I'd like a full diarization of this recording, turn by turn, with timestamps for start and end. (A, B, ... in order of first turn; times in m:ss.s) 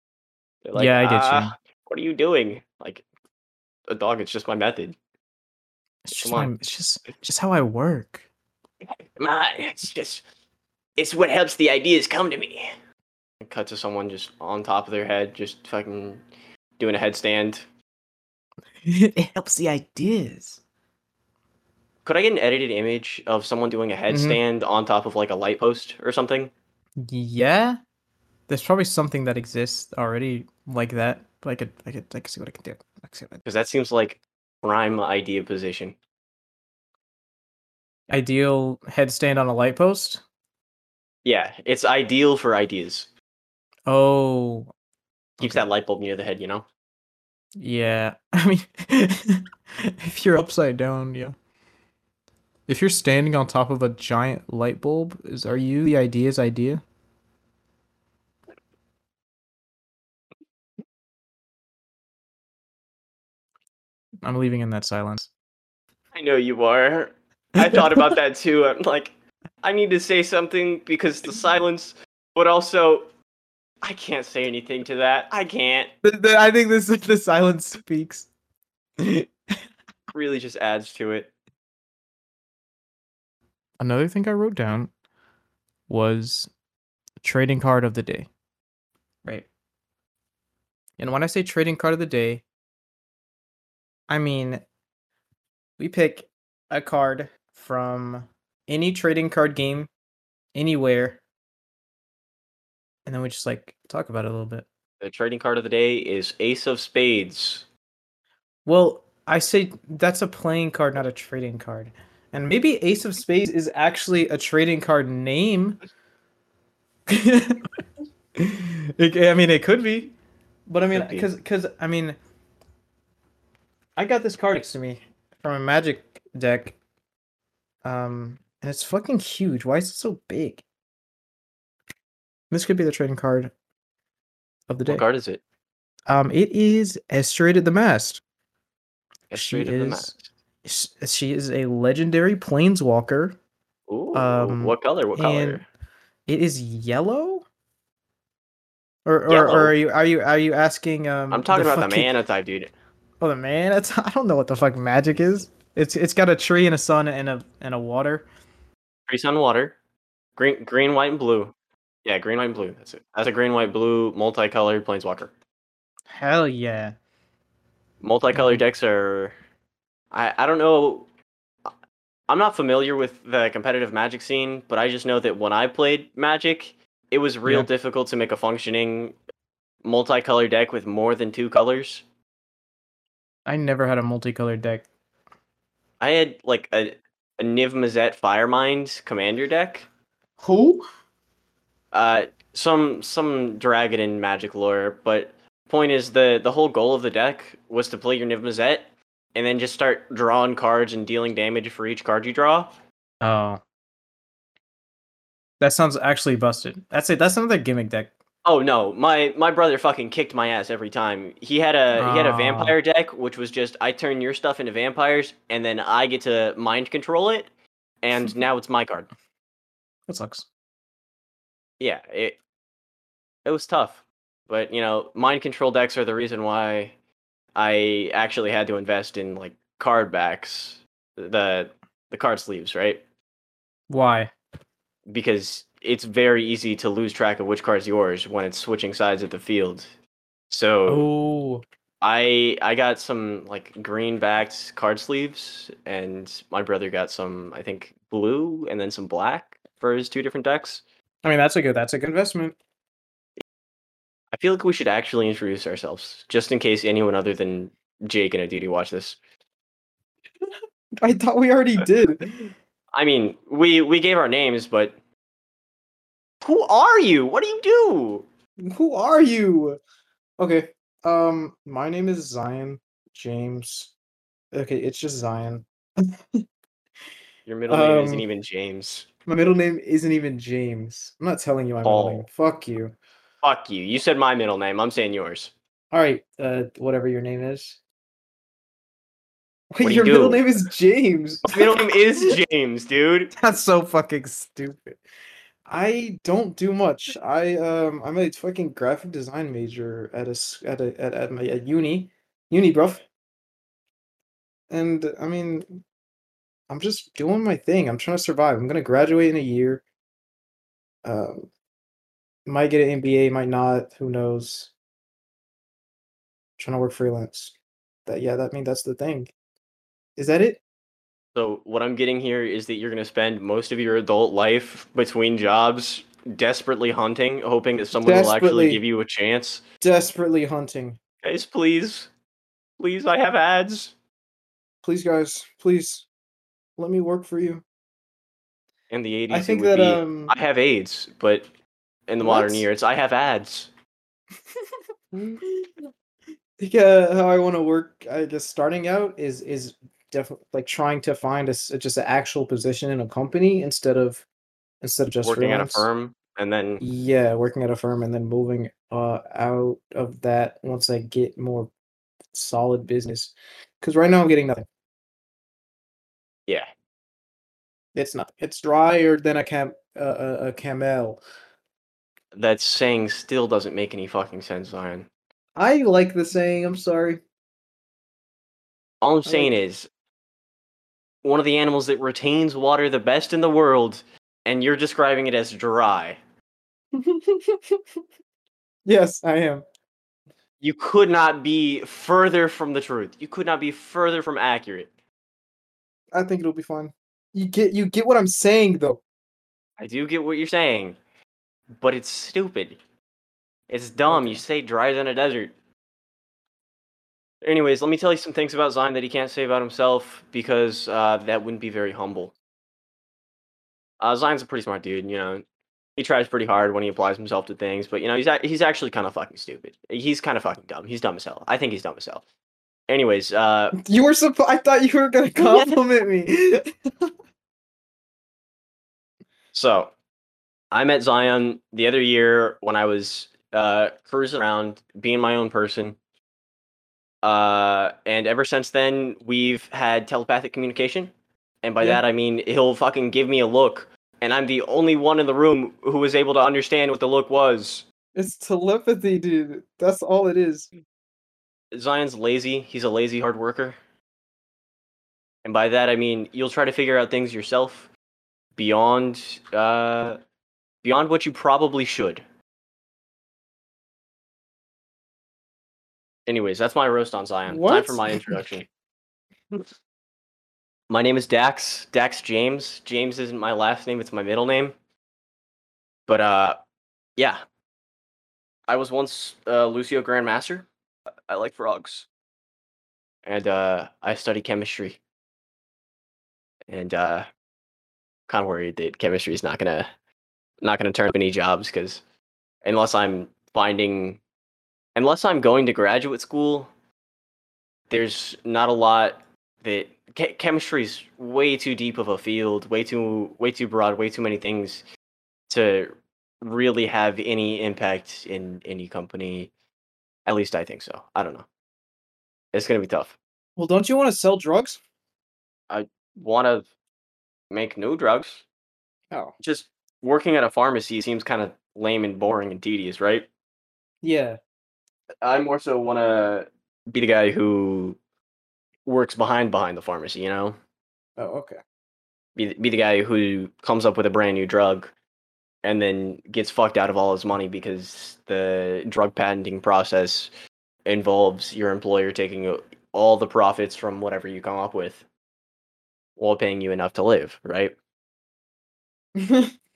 0:00.6-0:03.0 A
0:00.7-0:01.5 B
0:03.9-0:05.0 A
0:06.0-0:08.2 B
0:06.2-0:06.5 A
0:09.2-0:10.2 A
0:11.0-0:12.7 A
0:13.4-0:16.2 A
0:16.8-0:17.6 A
0:18.8-0:20.6 B
0:22.0-0:26.5 A
0:24.1-0:24.4 B
0:27.0-0:27.8 B
0:28.5-0:33.4 B
0:33.4-0:36.0 A
0:38.1-0:40.2 B
0:41.2-0:43.1 A
0:43.9-0:44.7 B
0:45.4-0:45.6 B
0:45.4-0:46.6 A
0:47.6-0:51.4 B
0:52.7-0:56.8 B
1:04.2-1:05.3 B
1:06.1-1:13.1 A
1:07.6-1:08.2 B
1:13.8-1:15.9 A
1:16.0-1:18.3 B
1:19.0-1:19.3 B
1:20.1-1:21.3 A
1:23.8-1:24.9 B
1:25.9-1:26.5 B
1:27.2-1:28.3 B
1:31.0-1:32.4 B
1:34.1-1:34.6 B
1:35.8-1:39.9 B
1:40.5-1:41.2 B
1:43.0-1:44.7 B
1:45.0-1:47.6 A
1:48.6-1:55.8 B
1:57.1-1:57.6 B
1:58.4-2:00.1 B
2:00.7-2:02.2 B
2:00.9-2:01.3 A
2:04.0-2:06.8 B
2:07.8-2:10.6 B
2:12.5-2:13.5 B
2:14.7-2:15.0 B
2:14.9-2:15.4 A
2:16.1-2:18.2 B
2:19.3-2:20.2 A
2:19.3-2:20.1 B
2:20.6-2:23.4 B
2:23.9-2:25.6 A
2:24.1-2:25.6 B
2:26.3-2:27.4 B
2:29.0-2:32.1 B
2:29.3-2:29.7 A
2:31.3-2:32.7 A
2:33.2-2:38.3 B
2:39.1-2:39.8 A
2:40.4-2:41.5 A
2:42.0-2:45.3 A
2:46.1-2:46.9 B
2:48.0-2:49.3 A
2:48.3-2:48.6 B
2:50.1-2:51.1 A
2:52.3-2:59.2 A
2:59.8-3:02.0 A
3:03.4-3:04.8 B
3:06.0-3:09.9 A
3:10.4-3:10.8 B
3:11.9-3:22.7 A
3:23.2-3:23.6 B
3:25.6-3:28.1 B
3:28.4-3:37.5 A
3:31.9-3:32.8 B
3:38.0-3:39.1 A
3:40.1-3:40.5 B
3:41.8-3:42.4 A
3:43.4-3:46.9 A
3:47.5-3:53.0 A
3:53.9-3:54.3 B
3:55.1-3:59.9 A
4:00.5-4:01.0 A
4:00.9-4:01.6 B
4:02.0-4:10.8 A
4:11.2-4:12.6 B
4:14.3-4:19.2 A
4:21.0-4:22.5 B
4:22.9-4:25.0 A
4:26.4-4:28.2 A
4:28.6-4:29.8 B
4:30.4-4:33.9 B
4:34.5-4:35.6 B
4:37.4-4:39.1 A
4:37.7-4:38.2 B
4:39.3-4:42.9 B
4:41.8-4:42.2 A
4:43.4-4:45.5 A
4:45.9-4:47.8 B
4:49.7-4:52.4 B
4:49.8-4:50.4 A
4:51.4-4:53.3 A
4:53.3-4:55.0 B
4:55.7-5:03.0 B
5:04.7-5:05.8 B
5:06.7-5:09.8 B
5:11.0-5:11.5 B
5:12.4-5:14.7 B
5:16.6-5:17.5 B
5:18.0-5:19.3 B
5:20.2-5:20.6 B
5:21.3-5:29.6 A
5:28.0-5:28.8 B
5:29.8-5:31.0 B
5:31.2-5:32.1 A
5:32.8-5:33.9 A
5:34.8-5:36.0 B
5:36.8-5:37.6 B
5:38.9-5:41.5 A
5:39.3-5:40.4 B
5:42.1-5:43.7 A
5:42.2-5:42.6 B
5:45.1-5:45.9 B
5:46.6-5:54.2 B
5:54.8-5:55.9 B
5:55.2-5:56.8 A
5:56.8-6:01.7 B
6:02.3-6:04.6 B
6:07.9-6:11.2 B
6:12.3-6:15.1 A
6:15.6-6:17.2 B
6:19.0-6:19.9 A
6:19.2-6:19.5 B
6:21.2-6:26.2 A
6:26.9-6:27.8 B
6:28.8-6:29.6 B
6:30.6-6:34.9 A
6:36.1-6:39.0 B
6:39.8-6:41.0 A
6:41.8-6:42.8 A
6:43.7-6:45.5 A
6:44.1-6:44.4 B
6:47.4-6:52.3 A
6:54.0-6:55.4 A
6:56.0-7:02.2 A
7:02.9-7:03.8 A
7:03.8-7:06.7 B
7:05.4-7:05.8 A
7:09.5-7:09.9 A
7:10.7-7:16.0 A
7:17.2-7:21.1 A
7:21.6-7:27.8 A
7:28.1-7:30.7 B
7:31.7-7:33.8 A
7:35.4-7:37.9 A
7:38.6-7:40.2 A
7:40.8-7:42.2 A
7:46.3-7:48.7 A
7:47.5-7:48.4 B
7:50.9-7:54.7 A
7:56.1-7:56.6 A
7:58.7-8:00.7 A
8:01.3-8:02.1 A
8:03.2-8:05.0 A
8:06.7-8:07.3 A
8:08.3-8:09.9 A
8:10.6-8:12.0 A
8:12.6-8:14.2 A
8:14.9-8:16.7 A
8:17.9-8:24.8 A
8:25.5-8:29.5 A
8:30.2-8:31.4 A
8:32.5-8:33.2 A
8:33.6-8:34.8 B
8:35.7-8:36.7 A
8:37.5-8:38.4 A
8:39.4-8:43.3 A
8:44.0-8:44.4 B
8:45.2-8:48.0 A
8:48.8-8:50.6 A
8:51.2-8:51.6 B
8:52.4-8:54.9 A
8:55.6-9:00.3 A
9:00.8-9:05.0 A
9:06.2-9:07.7 A
9:09.2-9:09.5 B